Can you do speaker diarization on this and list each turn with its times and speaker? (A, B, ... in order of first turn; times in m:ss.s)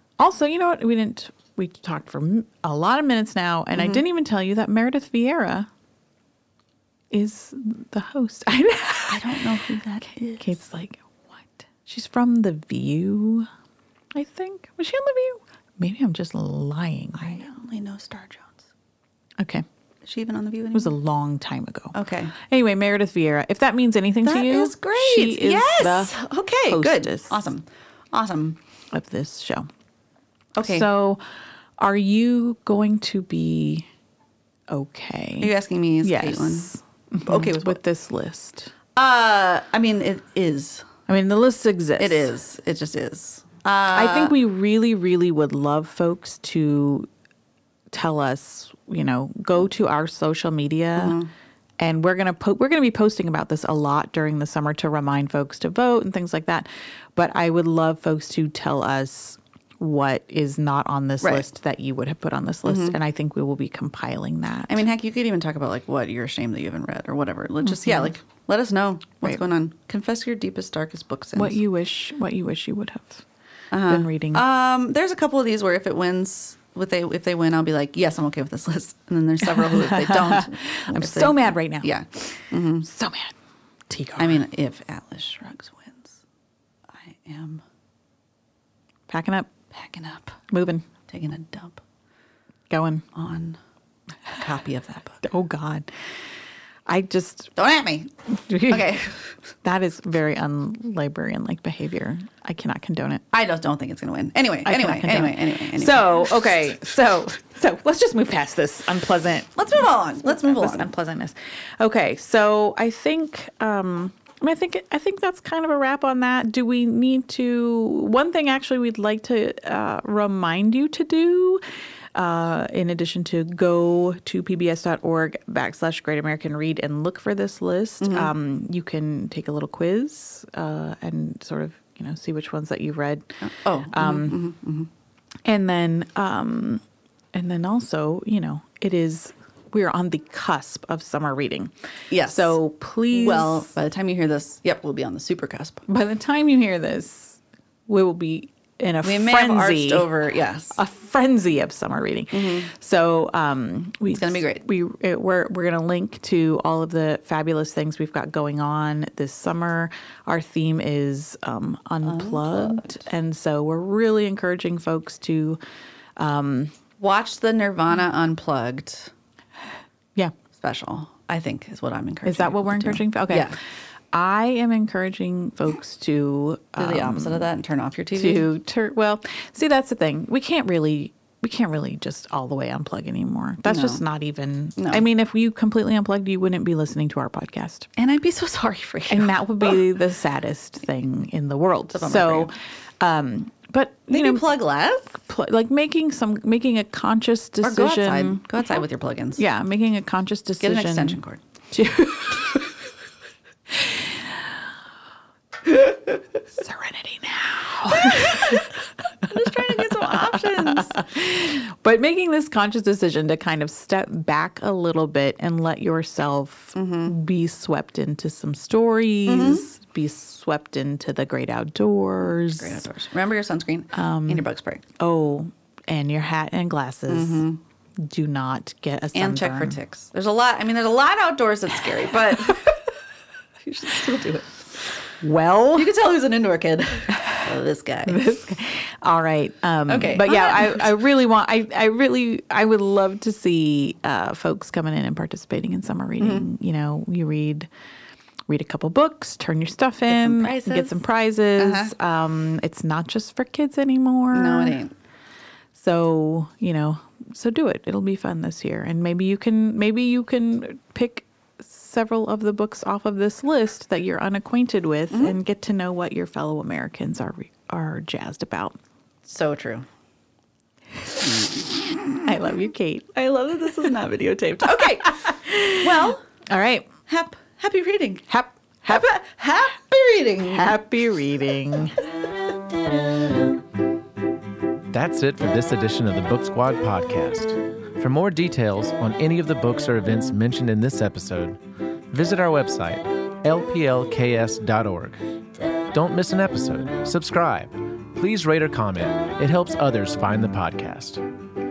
0:00.2-0:05.7 A
0:03.8-0:04.0 B
0:07.1-0:09.4 A
0:09.1-0:10.6 B
0:10.2-0:13.5 A
0:14.1-0:17.5 A
0:17.2-0:18.6 B
0:19.4-0:19.6 A
0:20.0-0:21.0 B
0:20.7-0:27.4 A
0:21.9-0:22.4 B
0:24.2-0:28.6 B
0:28.9-0:29.7 A
0:30.6-0:30.9 B
0:30.6-0:31.2 A
0:31.8-0:33.9 A
0:34.7-0:35.5 A
0:35.4-0:36.7 B
0:36.0-0:38.7 A
0:37.2-0:37.8 B
0:39.0-0:40.9 B
0:41.1-0:42.3 A
0:42.0-0:44.4 B
0:43.9-0:47.1 A
0:47.9-0:51.2 A
0:51.0-0:51.3 B
0:51.8-1:04.8 A
1:01.2-1:01.5 B
1:02.7-1:03.0 B
1:04.7-1:11.6 B
1:07.6-1:08.1 A
1:11.4-1:13.2 A
1:13.7-1:22.9 B
1:13.9-1:14.4 A
1:19.4-1:21.9 A
1:22.8-1:23.3 A
1:23.9-1:24.4 A
1:24.2-1:26.2 B
1:27.0-1:27.6 B
1:29.1-1:29.5 A
1:29.7-1:30.4 B
1:30.5-1:30.8 A
1:31.1-1:31.8 B
1:32.7-1:33.0 A
1:33.1-1:33.6 B
1:34.4-1:35.2 B
1:35.2-1:35.9 A
1:36.9-1:37.6 A
1:37.6-1:38.1 B
1:38.5-1:38.9 A
1:38.6-1:39.3 B
1:39.6-1:43.2 A
1:43.3-1:46.3 B
1:44.6-2:01.6 A
1:49.6-1:50.9 B
2:02.1-2:13.3 A
2:08.0-2:08.3 B
2:13.4-2:14.9 B
2:13.9-2:14.4 A
2:15.4-2:21.7 A
2:22.1-2:22.6 B
2:22.2-2:23.7 A
2:23.1-2:25.8 B
2:25.9-2:30.1 A
2:29.0-2:30.8 B
2:30.7-2:45.6 A
2:32.3-2:32.7 B
2:34.1-2:34.6 B
2:42.0-2:43.0 B
2:46.2-2:46.8 A
2:47.0-2:49.1 B
2:50.5-2:53.6 B
2:52.2-2:53.5 A
2:54.1-2:57.5 A
2:56.8-2:58.5 B
2:58.1-3:07.9 A
3:03.6-3:04.0 B
3:04.8-3:05.0 B
3:08.0-3:09.8 B
3:09.1-3:14.6 A
3:11.9-3:12.5 B
3:14.1-3:15.2 B
3:15.1-3:18.8 A
3:17.6-3:19.4 B
3:19.4-3:21.2 A
3:20.6-3:21.4 B
3:21.7-3:22.7 A
3:23.7-3:24.6 A
3:26.5-3:28.7 A
3:27.9-3:31.0 B
3:29.7-3:42.8 A
3:36.8-3:37.1 B
3:39.3-3:39.7 B
3:42.2-3:44.8 B
3:43.9-3:44.5 A
3:45.0-3:47.4 A
3:47.1-3:47.6 B
3:48.0-3:49.8 A
3:49.1-3:52.8 B
3:53.6-3:54.7 B
3:55.2-3:56.0 A
3:55.7-3:58.2 B
3:57.1-3:57.5 A
3:58.1-4:07.7 A
3:59.9-4:01.0 B
4:06.2-4:06.5 B
4:08.5-4:14.8 A
4:10.1-4:11.0 B
4:11.6-4:11.9 B
4:14.3-4:14.9 B
4:15.7-4:28.8 A
4:25.1-4:25.4 B
4:29.3-4:29.9 B
4:31.4-4:32.3 B
4:32.2-4:33.1 A
4:33.1-4:36.2 B
4:34.6-4:36.9 A
4:37.1-4:38.3 B
4:38.3-4:39.1 A
4:38.9-4:40.8 B
4:40.5-4:42.0 A
4:44.9-4:51.6 C
4:52.1-4:55.2 C
4:55.9-5:01.2 C